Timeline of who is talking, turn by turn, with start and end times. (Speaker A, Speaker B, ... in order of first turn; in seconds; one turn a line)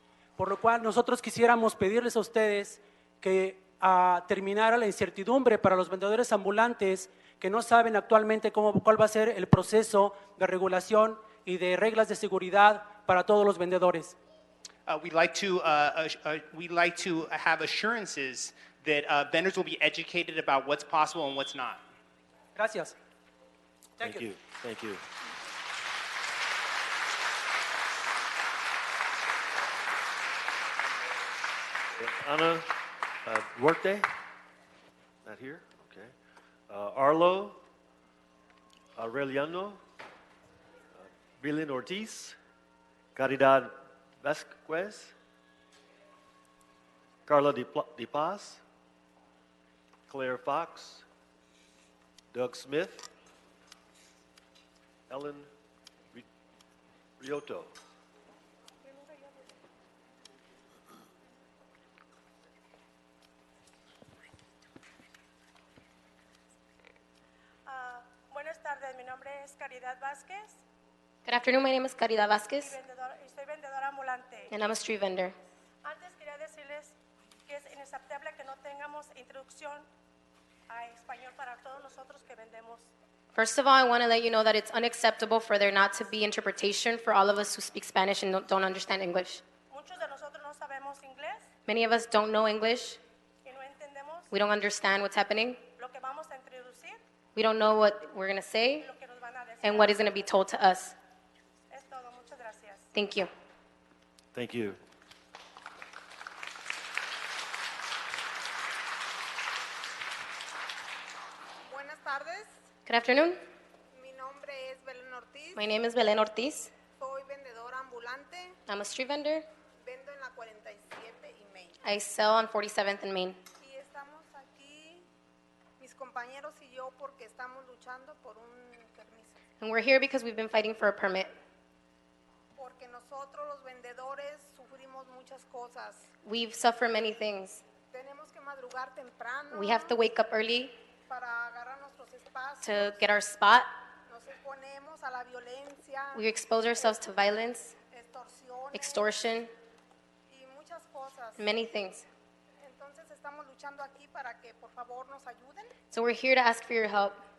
Speaker A: 0.4-14.2
Speaker B: 14.8-21.8
Speaker A: 22.6-22.9
Speaker A: 24.0-24.3
Speaker C: 24.0-25.0
Speaker C: 32.0-34.1
Speaker C: 35.2-36.1
Speaker C: 36.7-37.6
Speaker C: 39.0-39.8
Speaker C: 41.0-42.4
Speaker C: 43.2-45.1
Speaker C: 47.3-48.6
Speaker C: 50.1-51.0
Speaker C: 52.3-53.1
Speaker C: 55.1-55.5
Speaker C: 57.2-57.8
Speaker D: 58.8-59.4
Speaker D: 67.7-70.5
Speaker E: 71.3-72.8
Speaker D: 72.6-74.5
Speaker E: 74.5-75.3
Speaker D: 75.8-77.0
Speaker D: 77.5-79.9
Speaker D: 80.7-82.9
Speaker E: 83.3-89.4
Speaker D: 89.7-91.5
Speaker E: 91.7-93.0
Speaker D: 93.5-94.3
Speaker E: 94.3-95.6
Speaker D: 95.8-97.0
Speaker E: 97.3-98.9
Speaker D: 98.8-100.1
Speaker E: 99.6-101.0
Speaker D: 101.7-102.8
Speaker E: 102.9-103.3
Speaker C: 104.3-104.8
Speaker F: 111.6-112.5
Speaker E: 112.9-113.4
Speaker F: 113.9-115.6
Speaker E: 115.6-116.7
Speaker F: 117.0-118.6
Speaker E: 118.7-119.5
Speaker F: 119.8-121.8
Speaker E: 121.8-123.4
Speaker F: 123.6-125.1
Speaker F: 125.8-129.3
Speaker E: 129.6-131.3
Speaker F: 132.6-136.1
Speaker E: 136.2-137.6
Speaker F: 137.9-140.0
Speaker E: 139.5-140.7
Speaker F: 141.1-143.0
Speaker E: 142.6-143.7
Speaker F: 144.1-146.2
Speaker E: 146.1-147.8
Speaker F: 147.9-149.1
Speaker E: 148.7-149.5
Speaker F: 150.3-151.5
Speaker E: 151.4-152.1
Speaker F: 152.6-155.7
Speaker E: 155.9-157.2